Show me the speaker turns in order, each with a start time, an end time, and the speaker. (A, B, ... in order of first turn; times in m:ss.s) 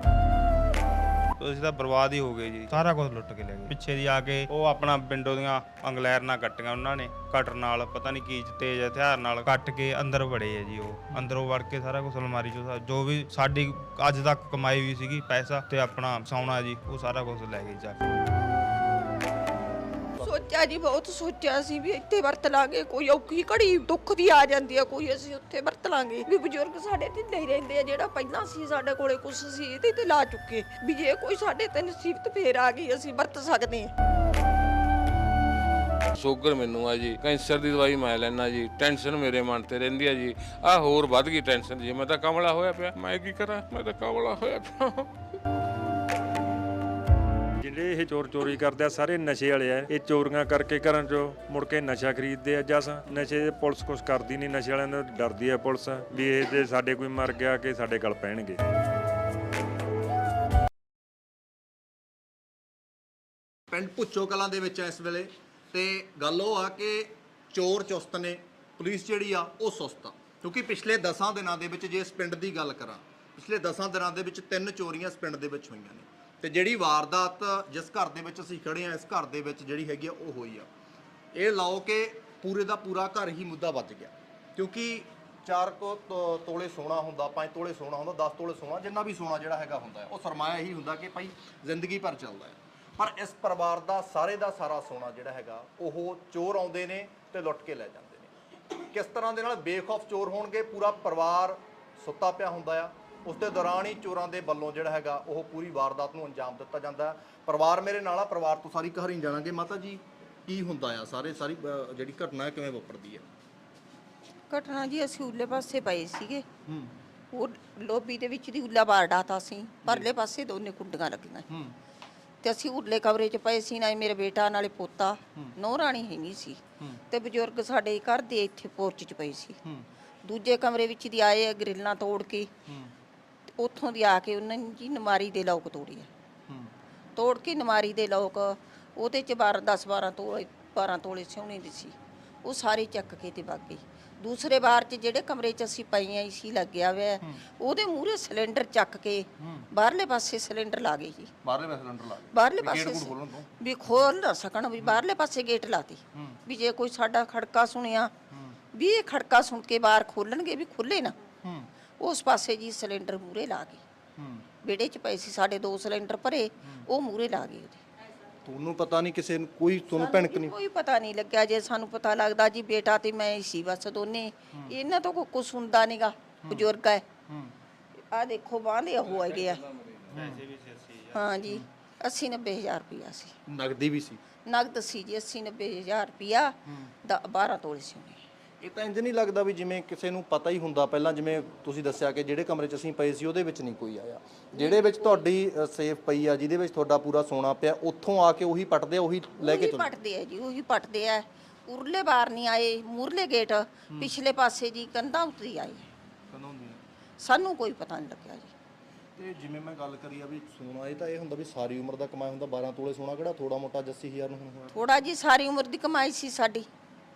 0:01.4-0:18.0 A
0:20.2-0:33.9 B
0:36.1-0:45.1 C
0:47.6-0:58.6 D
1:03.7-1:20.7 E
1:21.3-1:38.3 E
1:38.9-1:53.2 E
1:54.5-1:56.5 B
1:56.7-1:57.0 E
1:57.3-2:01.4 B
1:59.8-2:00.1 E
2:01.5-2:01.8 E
2:02.4-2:09.6 B
2:10.2-2:12.5 B
2:12.7-2:12.9 E
2:13.6-2:16.1 B
2:16.5-2:16.7 E
2:17.2-2:31.3 B
2:29.4-2:29.7 E
2:31.4-2:34.1 E
2:32.3-2:38.1 B
2:36.1-2:36.4 E
2:38.3-2:38.6 E
2:38.7-2:41.2 B
2:41.4-2:41.7 E
2:42.0-2:43.8 B
2:44.2-2:44.5 E
2:44.6-2:47.8 B
2:48.4-2:50.5 E
2:49.9-2:57.1 B
2:57.3-2:57.6 E
2:58.1-2:59.7 B
3:00.1-3:01.4 A
3:00.1-3:00.4 E
3:01.1-3:03.4 B
3:03.5-3:04.2 E
3:04.5-3:08.2 B
3:06.7-3:06.9 E
3:08.6-3:19.9 E
3:14.6-3:15.2 B
3:19.4-3:25.9 B
3:23.9-3:24.2 E
3:26.3-3:26.8 E
3:27.2-3:28.5 B
3:29.2-3:34.8 E
3:34.7-3:36.7 B